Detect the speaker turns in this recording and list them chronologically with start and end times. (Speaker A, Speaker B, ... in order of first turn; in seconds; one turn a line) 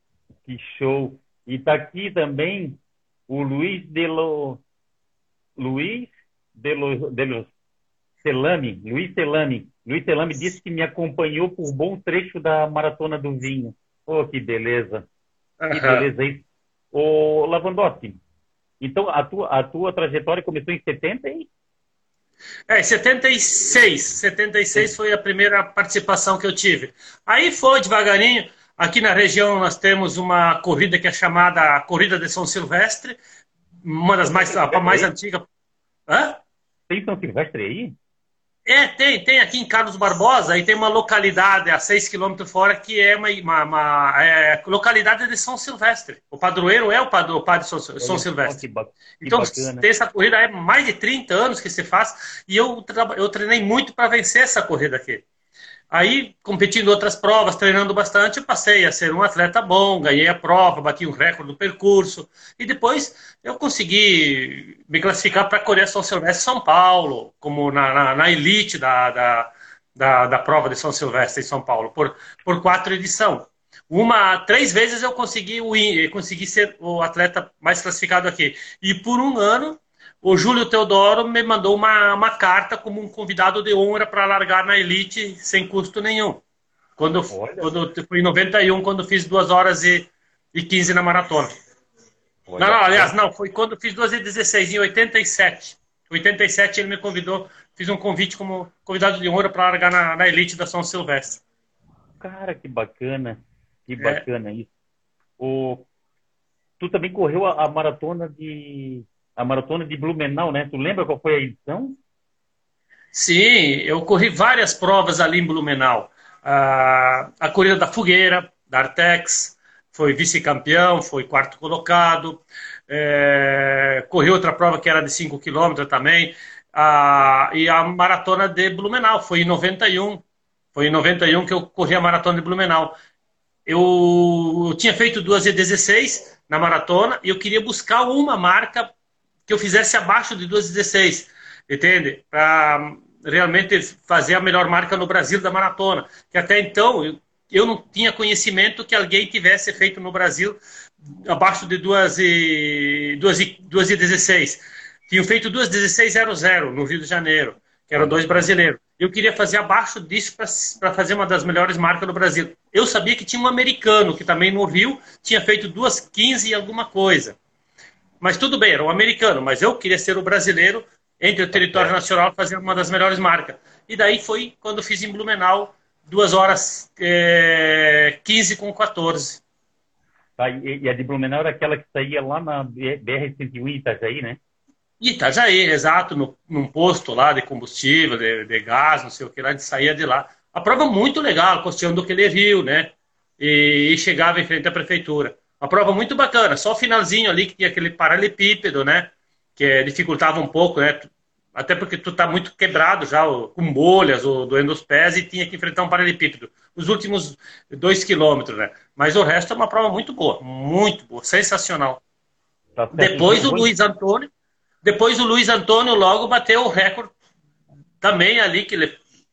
Speaker A: 0.5-4.6
Speaker A: 5.6-7.5
Speaker A: 8.2-15.1
Speaker B: 15.6-16.1
Speaker A: 15.7-18.2
Speaker A: 18.8-21.5
Speaker B: 22.7-33.2
Speaker B: 33.8-35.5
Speaker A: 34.3-35.1
Speaker B: 36.1-36.4
Speaker A: 36.9-38.0
Speaker B: 38.7-48.6
Speaker A: 48.0-49.9
Speaker B: 49.2-55.2
Speaker B: 55.9-86.4
Speaker B: 87.0-91.5
Speaker A: 87.3-87.7
Speaker A: 92.5-93.1
Speaker B: 92.6-101.4
Speaker A: 102.2-104.7
Speaker A: 105.4-105.9
Speaker A: 106.8-112.0
Speaker B: 113.1-130.2
Speaker B: 130.8-133.0
Speaker B: 133.7-138.9
Speaker B: 139.5-150.6
Speaker B: 151.3-167.4
Speaker A: 158.0-158.5
Speaker B: 168.2-179.4
Speaker A: 171.5-171.9
Speaker A: 180.4-184.4
Speaker B: 185.0-212.0
Speaker A: 212.8-213.7
Speaker B: 212.9-214.3
Speaker B: 214.8-217.1
Speaker B: 218.0-219.0